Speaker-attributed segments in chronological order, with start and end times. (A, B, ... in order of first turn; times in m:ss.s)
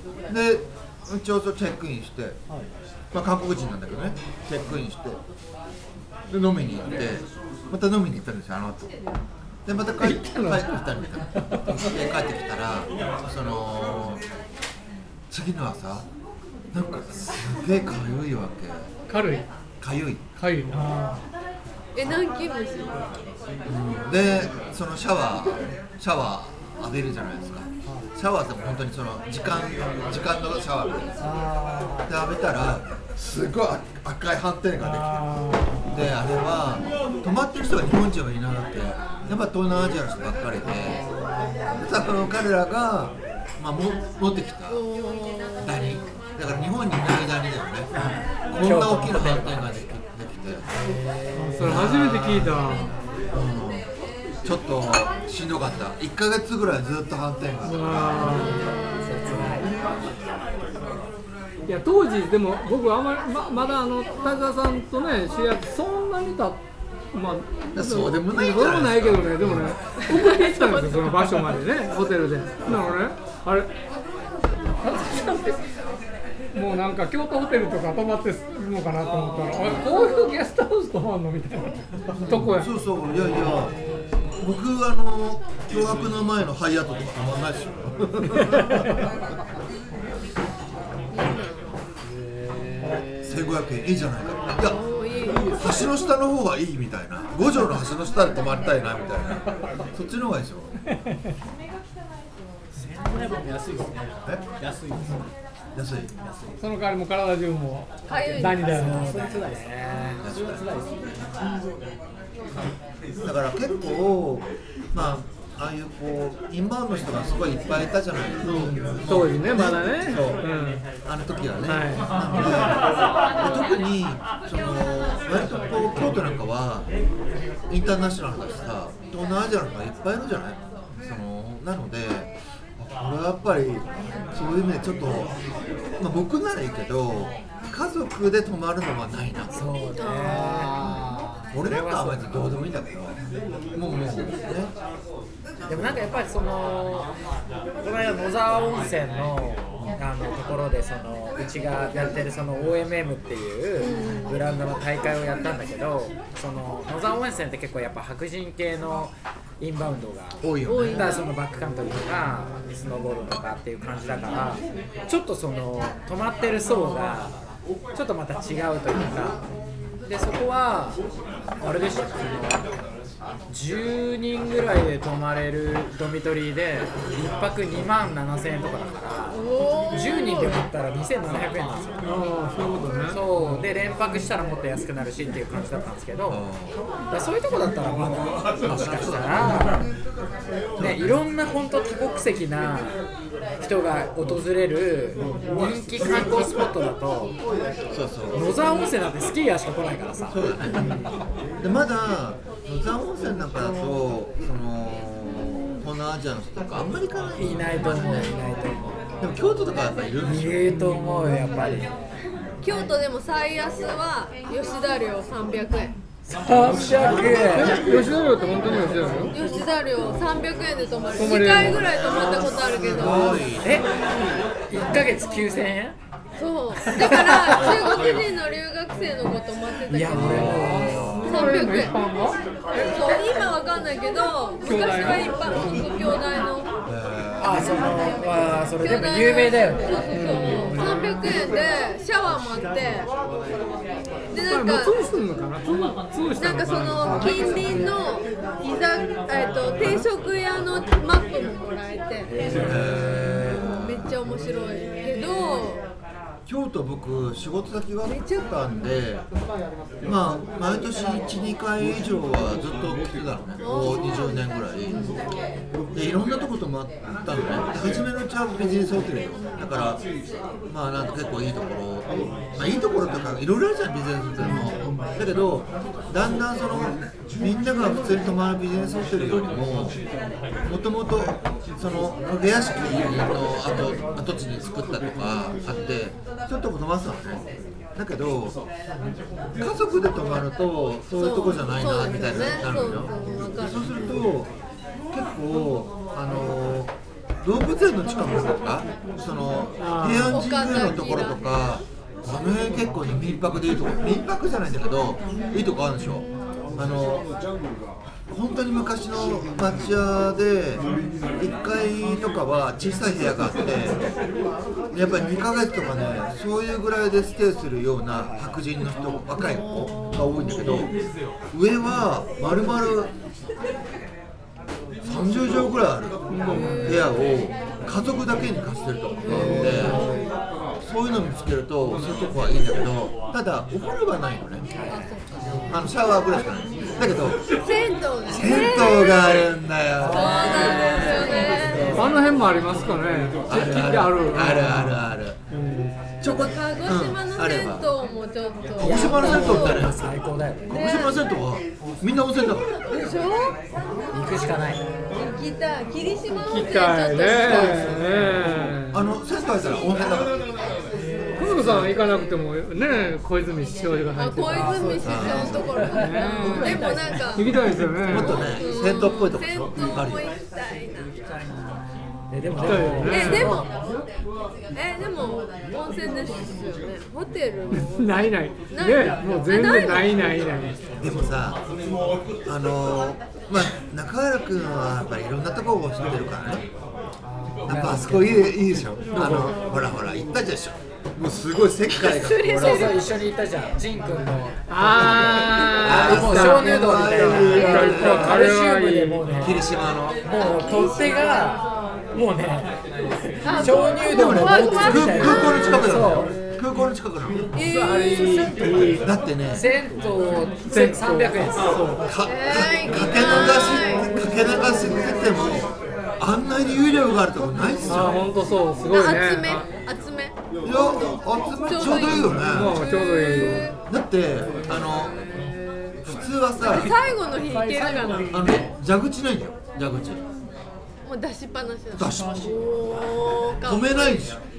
0:00.3-0:02.4 A
0:03.1-0:05.2 A
0:06.3-0:08.9 A
0:09.6-0:14.2 A
0:10.0-0:10.8 B
0:11.3-0:11.6 B
0:15.3-0:16.0 A
0:16.7-0:18.9 A
0:19.1-0:19.4 B
0:19.8-0:20.2 A
0:20.4-0:21.0 B
0:20.7-0:21.2 C
0:21.9-0:23.0 D
0:23.6-0:31.1 A
0:31.2-0:32.1 C
0:32.1-0:35.3 A
0:34.8-0:35.8 C
0:35.9-0:41.0 A
0:40.6-0:41.8 C
0:41.8-0:44.8 A
0:44.7-0:45.7 D
0:45.6-0:47.9 A
0:48.5-0:50.6 A
0:48.6-0:49.6 E
0:50.8-0:51.6 C
0:51.3-0:52.9 B
0:51.6-0:52.7 A
0:53.3-0:53.9 A
0:54.4-0:58.4 A
0:57.6-0:58.6 B
0:58.3-0:59.6 D
0:58.4-0:59.7 E
1:01.7-1:06.6 B
1:07.1-1:13.7 B
1:07.7-1:09.8 A
1:10.1-1:11.3 D
1:14.8-1:15.6 B
1:16.5-1:22.7 B
1:19.8-1:20.3 D
1:22.3-1:23.7 A
1:23.3-1:24.2 C
1:24.4-1:29.0 A
1:31.1-1:31.7 D
1:32.4-1:33.4 C
1:33.2-1:34.8 A
1:34.6-1:35.8 D
1:35.3-1:35.6 C
1:35.5-1:40.7 A
1:42.7-1:45.3 C
1:45.7-1:46.1 A
1:46.2-1:46.6 C
1:46.6-1:49.1 B
1:48.1-1:48.7 D
1:48.3-1:51.3 C
1:48.6-1:50.2 E
1:50.2-1:50.7 A
1:53.2-2:00.4 A
1:58.4-2:00.8 B
2:01.0-2:02.8 A
2:01.6-2:02.3 B
2:03.4-2:06.9 A
2:07.7-2:15.3 A
2:16.0-2:19.7 A
2:19.5-2:21.0 E
2:20.0-2:20.7 D
2:20.2-2:21.4 C
2:21.5-2:23.2 A
2:21.6-2:22.5 E
2:23.7-2:24.7 A
2:25.7-2:27.1 E
2:25.7-2:26.0 A
2:27.8-2:47.4 E
2:33.8-2:34.4 D
2:40.4-2:41.2 A
2:40.6-2:41.3 D
2:47.9-2:49.4 E
2:50.0-2:51.0 E
2:51.6-2:52.6 E
2:53.5-3:02.1 E
2:59.3-3:00.6 D
3:02.0-3:03.6 B
3:03.1-3:06.4 E
3:06.3-3:06.8 A
3:07.1-3:09.8 E
3:08.6-3:09.8 A
3:10.8-3:11.2 A
3:10.8-3:13.0 E
3:13.6-3:17.4 E
3:17.9-3:18.6 A
3:18.3-3:21.1 E
3:20.3-3:21.0 A
3:21.6-3:28.5 A
3:27.4-3:29.0 E
3:29.2-3:30.8 A
3:30.2-3:31.9 E
3:30.7-3:31.4 B
3:32.6-3:35.9 D
3:36.2-3:37.9 E
3:36.8-3:37.7 A
3:37.2-3:39.3 B
3:38.4-3:43.5 D
3:41.2-3:42.0 B
3:42.2-3:42.4 E
3:42.5-3:43.9 A
3:43.0-3:44.0 E
3:44.7-3:46.0 E
3:46.4-3:52.0 D
3:46.8-3:48.0 E
3:49.9-3:51.2 E
3:50.1-3:51.4 A
3:50.4-3:52.8 B
3:52.7-3:56.7 D
3:54.6-3:55.4 B
3:56.9-3:58.0 A
3:57.4-4:00.1 E
3:58.8-4:03.1 D
4:00.1-4:01.3 B
4:04.3-4:05.0 D
4:04.4-4:07.8 B
4:06.4-4:12.3 D
4:07.0-4:07.9 C
4:12.6-4:14.1 A
4:13.1-4:15.8 D
4:16.4-4:19.2 A
4:18.0-4:18.9 D
4:20.0-4:25.1 A
4:23.6-4:25.2 D
4:25.9-4:30.0 A
4:30.7-4:40.0 A
4:40.6-4:47.4 A
4:48.0-4:48.6 A
4:49.6-4:54.5 A
4:51.1-4:54.1 D
4:55.1-5:06.2 A
4:59.8-5:00.4 B
5:00.3-5:01.4 D
5:05.4-5:06.3 D
5:06.8-5:07.2 A
5:08.3-5:10.8 A
5:11.4-5:14.0 A
5:14.9-5:20.9 A
5:19.8-5:20.3 D
5:21.5-5:23.1 A
5:25.0-5:30.1 A
5:26.3-5:27.0 B
5:26.5-5:27.0 D
5:29.2-5:30.2 D
5:29.3-5:30.2 C
5:30.8-5:34.6 A
5:34.9-5:35.6 D
5:35.7-5:37.5 A
5:37.6-5:39.5 D
5:38.2-5:42.1 A
5:40.0-5:42.1 D
5:41.6-5:42.0 E
5:41.9-5:46.0 B
5:43.5-5:45.4 A
5:46.2-5:47.9 A
5:46.3-5:49.9 D
5:48.8-5:50.1 A
5:48.8-5:50.8 E
5:50.7-5:52.7 A
5:50.7-5:51.2 D
5:51.9-5:52.1 C
5:52.8-5:53.6 D
5:54.1-5:54.9 E
5:54.4-5:55.3 C
5:55.1-5:58.2 D
5:56.3-5:59.0 B
5:57.5-5:58.6 C
5:57.5-5:58.7 E
5:58.9-6:00.4 A
6:00.9-6:01.7 C
6:01.4-6:04.8 B
6:01.5-6:01.9 A
6:04.1-6:07.6 D
6:04.4-6:08.5 C
6:05.0-6:05.7 A
6:05.9-6:08.4 B
6:08.0-6:10.3 A
6:08.4-6:11.0 D
6:11.0-6:14.0 C
6:12.3-6:13.6 E
6:12.5-6:13.6 B
6:13.1-6:13.7 D
6:14.7-6:18.1 D
6:17.7-6:20.8 B
6:18.7-6:20.1 D
6:18.8-6:21.6 C
6:21.0-6:21.6 A
6:22.4-6:26.6 A
6:27.3-6:27.9 C
6:27.6-6:28.4 E
6:27.6-6:33.1 A
6:31.9-6:39.7 E
6:34.7-6:39.5 B
6:35.8-6:38.4 A
6:39.4-6:40.2 A
6:40.2-6:42.7 E
6:40.3-6:41.5 D
6:43.4-6:46.3 E
6:43.4-6:46.0 D
6:43.9-6:47.4 A
6:47.5-6:48.7 D
6:47.5-6:48.9 B
6:48.5-6:52.0 E
6:48.9-6:49.7 A
6:50.7-6:52.0 B
6:52.0-6:58.2 A
6:52.2-6:54.1 D
6:54.4-6:54.8 C
6:57.9-6:59.6 B
6:58.9-7:03.8 D
7:00.6-7:02.8 A
7:02.3-7:03.7 B
7:03.9-7:05.2 A
7:04.7-7:05.1 C
7:06.0-7:07.0 A
7:06.6-7:08.4 D
7:06.6-7:08.7 C
7:08.3-7:10.2 A
7:11.0-7:14.3 D
7:11.9-7:13.1 C
7:12.0-7:12.3 A
7:13.6-7:14.4 A